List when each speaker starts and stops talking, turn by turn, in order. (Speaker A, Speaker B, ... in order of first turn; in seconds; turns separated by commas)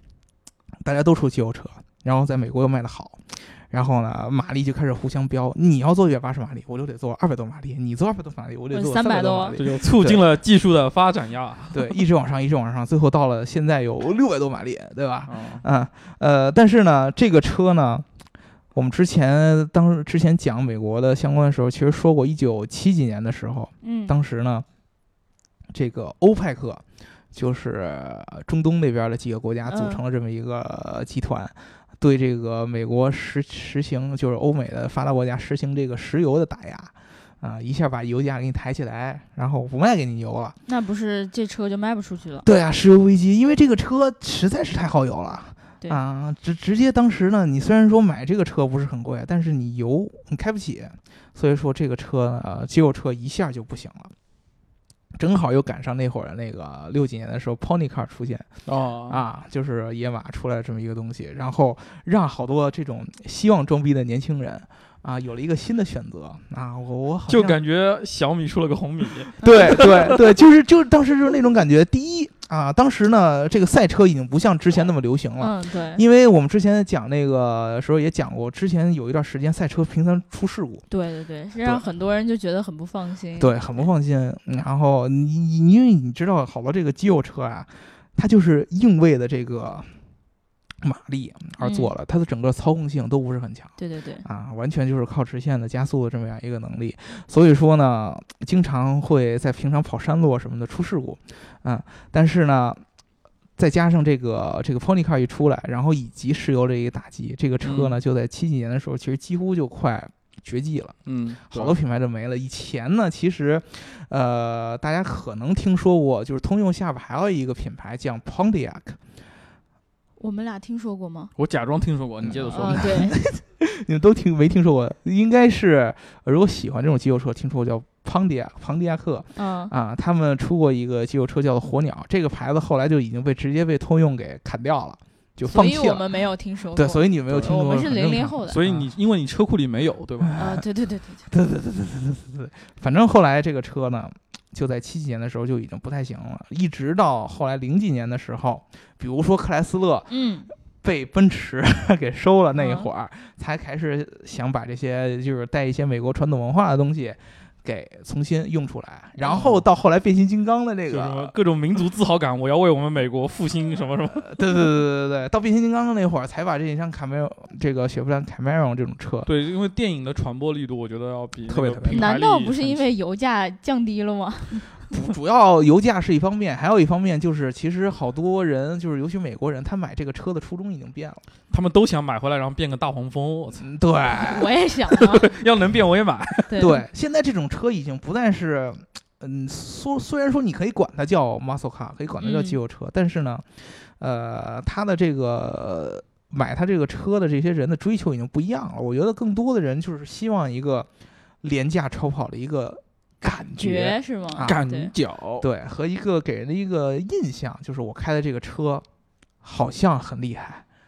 Speaker A: 0.8-10.2, Speaker B: 8.7-9.6, Speaker C: 9.6-12.0, Speaker A: 11.7-18.1, Speaker C: 15.3-15.6, Speaker A: 18.7-24.6, Speaker B: 23.8-24.1, Speaker A: 25.7-40.6, Speaker B: 29.7-30.0, Speaker B: 40.7-42.5, Speaker A: 42.4-54.1, Speaker A: 55.2-58.5, Speaker C: 58.7-59.2, Speaker A: 59.1-67.6, Speaker C: 67.3-70.3, Speaker A: 69.4-80.8, Speaker B: 75.4-76.0, Speaker B: 80.9-83.9, Speaker A: 83.4-89.9, Speaker A: 90.8-102.8, Speaker B: 91.6-91.9, Speaker B: 93.8-94.2, Speaker A: 103.6-111.0, Speaker C: 107.6-108.0, Speaker C: 111.1-111.8, Speaker A: 111.5-119.0, Speaker B: 120.2-121.3, Speaker C: 121.4-123.0, Speaker A: 122.2-136.1, Speaker B: 122.5-123.2, Speaker B: 129.4-129.7, Speaker B: 135.4-138.6, Speaker A: 136.7-138.9, Speaker C: 138.5-140.3, Speaker A: 140.2-140.6, Speaker B: 140.4-141.3, Speaker A: 141.3-150.1, Speaker B: 150.1-150.5, Speaker A: 150.8-161.3, Speaker B: 152.6-152.9, Speaker C: 159.3-159.6, Speaker C: 160.9-164.3, Speaker A: 164.2-169.3, Speaker C: 169.2-172.8, Speaker A: 171.5-172.1, Speaker B: 171.9-174.7, Speaker A: 174.9-181.2, Speaker C: 181.5-183.7, Speaker A: 183.6-184.5, Speaker B: 184.2-185.3, Speaker C: 184.9-186.5, Speaker B: 186.5-186.8, Speaker A: 186.6-200.9, Speaker B: 192.2-192.6, Speaker A: 201.4-204.6, Speaker B: 203.6-204.9, Speaker C: 204.4-205.5, Speaker A: 205.4-208.8, Speaker A: 209.4-210.6